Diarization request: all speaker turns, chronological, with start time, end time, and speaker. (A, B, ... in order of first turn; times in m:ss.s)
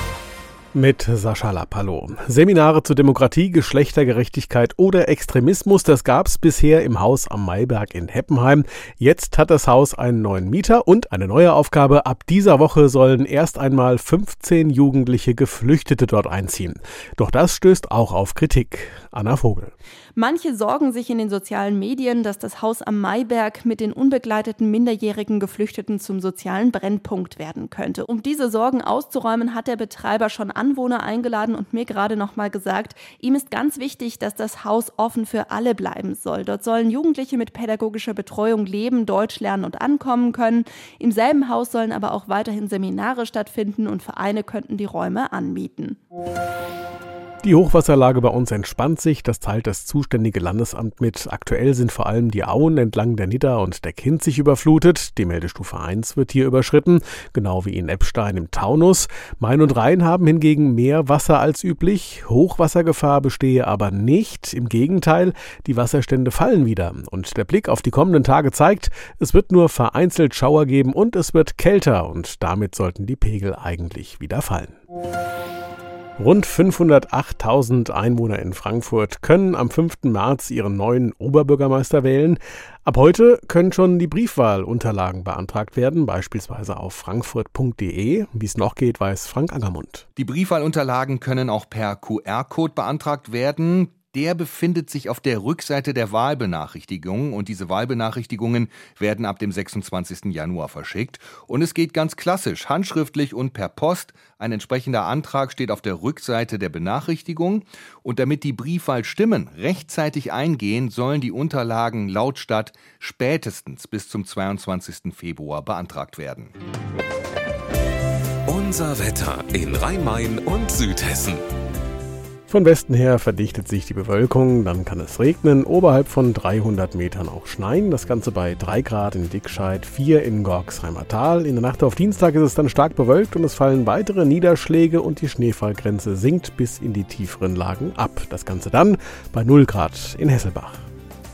0:00.7-0:19.7 A
0:20.2-0:46.0 B
0:47.4-1:14.8 A
1:16.2-1:30.0 A
1:30.2-1:56.5 C
1:58.5-2:01.4 D
2:02.5-2:20.8 A